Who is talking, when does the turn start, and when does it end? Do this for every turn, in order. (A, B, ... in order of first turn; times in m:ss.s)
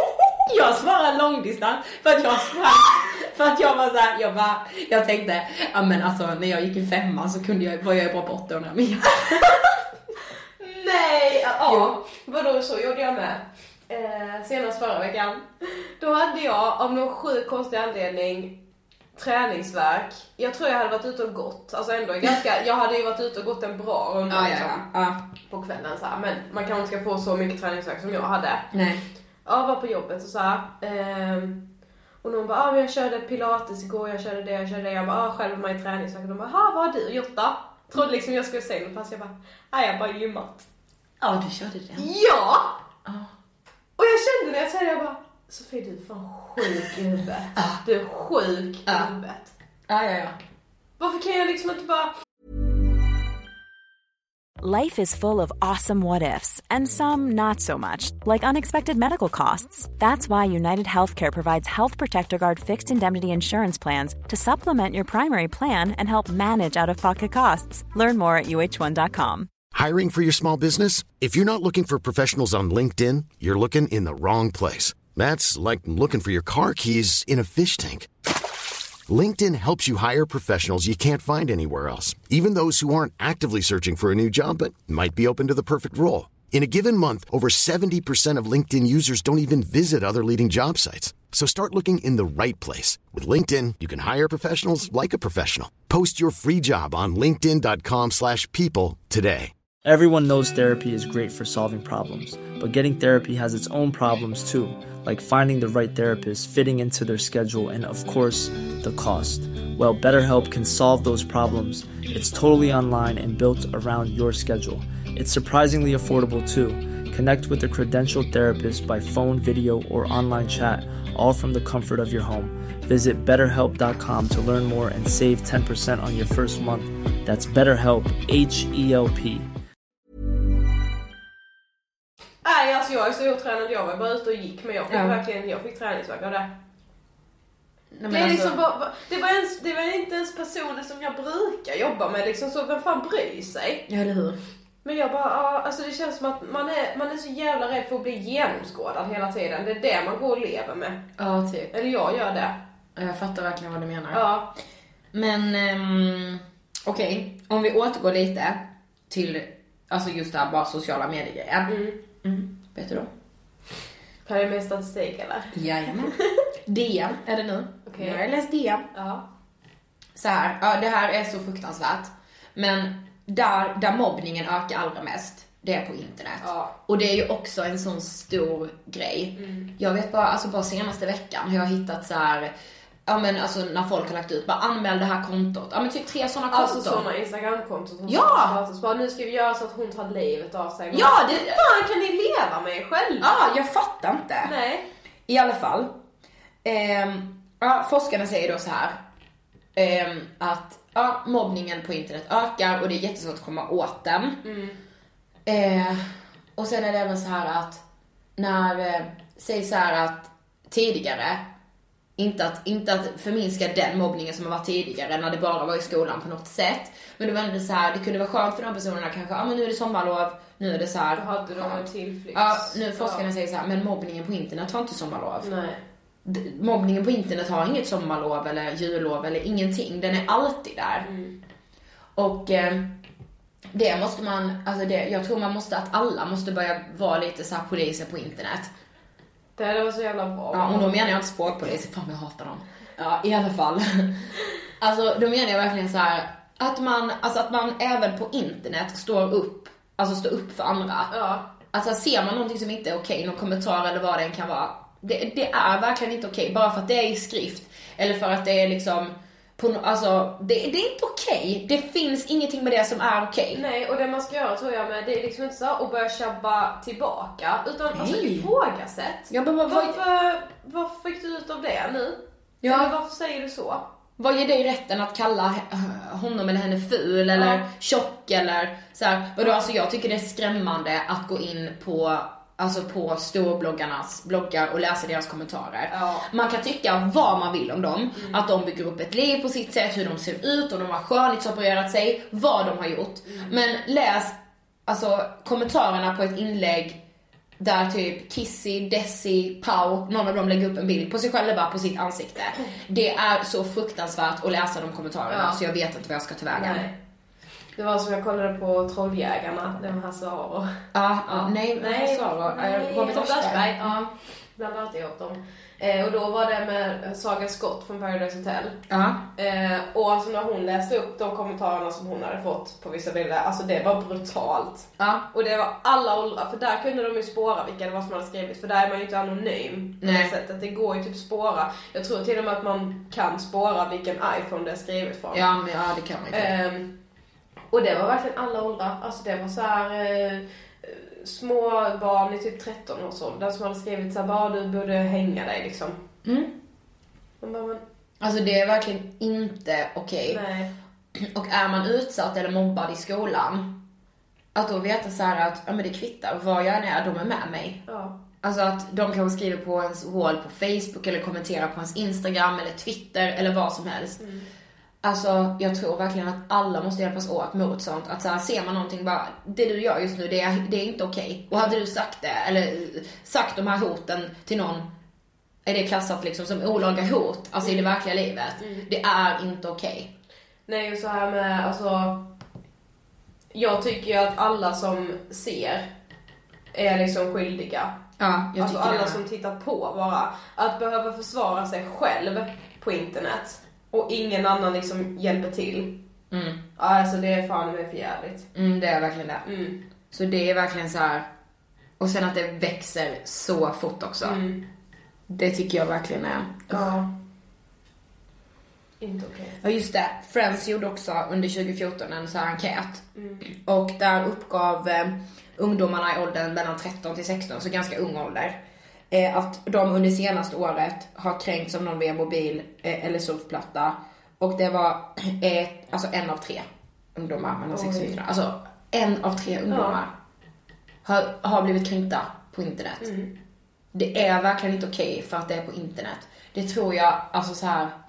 0:00.5-0:09.6 A
0:10.6-0:18.6 B
0:11.7-0:12.0 A
0:19.2-0:24.9 B
0:24.3-0:25.2 A
0:25.5-0:28.7 B
0:28.7-0:29.0 A
0:29.4-0:31.6 B
0:32.2-0:40.7 B
0:41.2-0:42.1 A
0:42.0-0:42.8 B
0:43.0-0:43.3 A
0:44.0-0:49.5 B
0:47.6-0:47.8 A
0:48.9-0:49.1 A
0:49.9-0:50.4 A
0:51.0-0:52.1 B
0:54.6-1:09.5 C
1:09.7-1:18.1 D
1:19.1-1:39.5 D
1:39.8-2:09.5 E
2:12.4-2:16.5 B
2:14.9-2:15.2 A
2:17.9-2:18.6 A
2:18.1-2:23.9 B
2:23.9-2:24.4 A
2:24.8-2:31.0 B
2:31.2-2:31.7 A
2:31.7-2:32.6 B
2:33.0-2:34.3 A
2:34.1-2:34.5 B
2:35.1-2:43.1 A
2:41.7-2:42.0 B
2:44.3-2:46.2 B
2:45.5-2:48.9 A
2:47.9-2:48.2 B
2:48.9-2:49.2 B
2:50.2-3:02.5 A
2:56.4-2:56.7 B
2:59.4-2:59.7 B
3:03.1-3:07.1 A
3:06.5-3:13.3 B
3:08.1-3:08.6 A
3:10.9-3:11.6 A
3:13.2-3:14.6 A
3:14.4-3:14.9 B
3:15.3-3:15.9 A
3:16.6-3:19.0 A
3:19.8-3:24.4 A
3:24.4-3:24.8 B
3:25.5-3:27.8 A
3:28.4-3:31.5 A
3:32.2-3:45.5 A
3:41.2-3:43.3 B
3:45.4-3:45.8 B
3:46.2-3:51.1 A
3:51.0-3:51.4 B
3:52.2-3:53.0 A
3:53.7-3:58.7 A
3:59.6-4:01.2 B
4:00.5-4:11.2 A
4:11.1-4:11.4 B
4:11.7-4:23.6 A
4:23.5-4:33.8 B
4:27.9-4:28.5 A
4:29.3-4:30.0 A
4:32.6-4:32.9 A
4:34.2-4:57.0 A
4:37.3-4:37.6 B
4:39.4-4:39.7 B
4:45.9-4:46.3 B
4:48.2-4:48.4 B
4:53.3-4:53.6 B
4:57.6-5:06.9 A
5:05.3-5:05.6 B
5:06.5-5:06.9 B
5:07.8-5:10.7 B
5:10.9-5:14.1 A
5:11.3-5:18.8 B
5:18.9-5:19.2 A
5:19.4-5:35.4 B
5:25.0-5:25.3 A
5:30.0-5:30.3 A
5:35.3-5:36.5 A
5:36.3-5:37.0 B
5:37.7-5:46.0 B
5:46.2-5:46.5 A
5:47.4-5:47.8 B
5:48.2-5:50.4 A
5:50.3-5:50.7 B
5:51.2-5:53.8 A
5:54.6-5:57.8 A
5:57.9-5:58.2 B
5:58.4-6:04.2 A
6:04.2-6:04.5 B
6:05.0-6:14.9 A
6:15.6-6:20.1 A
6:18.6-6:18.9 B
6:20.7-6:22.3 B
6:23.5-6:25.9 B
6:26.7-6:27.9 B
6:28.2-6:29.2 A
6:28.6-6:36.0 B
6:36.3-6:36.6 A
6:36.8-6:38.5 B
6:38.5-6:39.5 A
6:39.4-6:39.8 B
6:40.1-6:41.3 A
6:42.0-6:44.4 A
6:44.2-6:44.6 B
6:45.3-6:46.9 A
6:46.7-6:47.1 B
6:49.0-6:49.6 B
6:49.6-6:58.6 A
6:53.2-6:53.4 B
6:59.1-7:10.1 A
7:07.7-7:08.2 B
7:09.7-7:10.0 B
7:11.0-7:13.1 A
7:13.0-7:13.3 B
7:13.9-7:18.0 A